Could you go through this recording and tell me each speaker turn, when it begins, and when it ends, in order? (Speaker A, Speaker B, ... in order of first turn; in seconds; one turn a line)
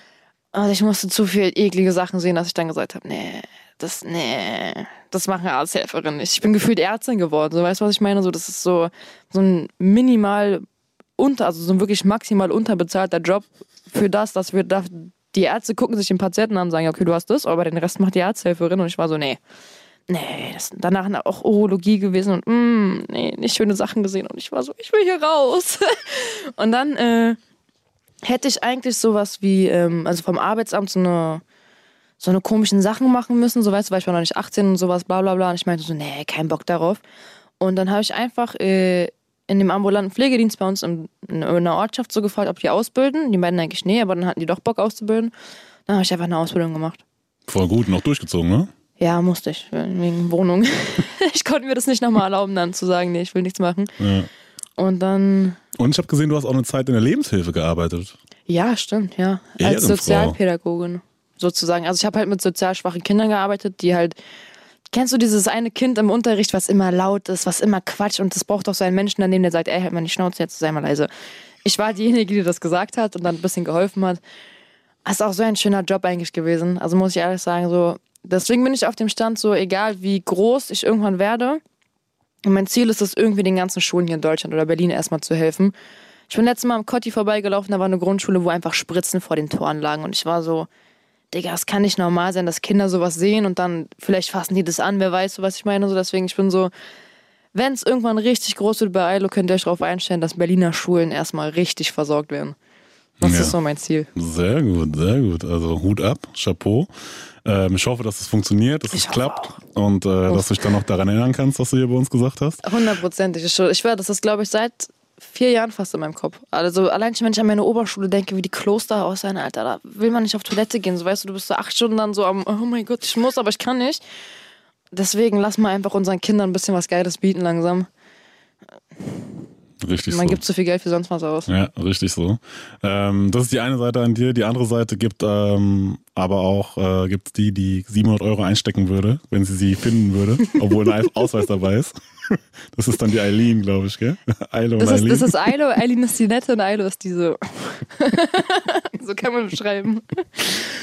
Speaker A: 0.5-10.6
Speaker A: 11.2-19.4
Speaker A: 20.1-27.4
Speaker A: 28.2-31.4
Speaker A: 32.2-37.0
Speaker A: 37.6-45.3
Speaker A: 45.9-47.0
Speaker B: 47.5-48.7
Speaker A: 49.0-53.9
Speaker B: 54.0-54.3
Speaker A: 54.8-55.6
Speaker B: 55.8-58.1
Speaker A: 58.5-64.1
Speaker B: 59.6-60.4
Speaker A: 64.9-71.1
Speaker A: 71.6-74.2
Speaker A: 75.0-81.6
Speaker A: 82.5-85.7
Speaker A: 86.3-90.7
Speaker A: 91.3-96.7
Speaker A: 97.5-102.6
Speaker A: 103.2-104.1
Speaker B: 103.2-103.5
Speaker B: 104.1-106.9
Speaker B: 107.4-112.6
Speaker A: 108.9-109.6
Speaker A: 110.3-110.7
Speaker A: 112.6-124.0
Speaker A: 124.9-127.9
Speaker A: 129.0-129.4
Speaker B: 129.8-130.4
Speaker A: 130.1-131.5
Speaker B: 131.5-145.3
Speaker A: 144.8-150.5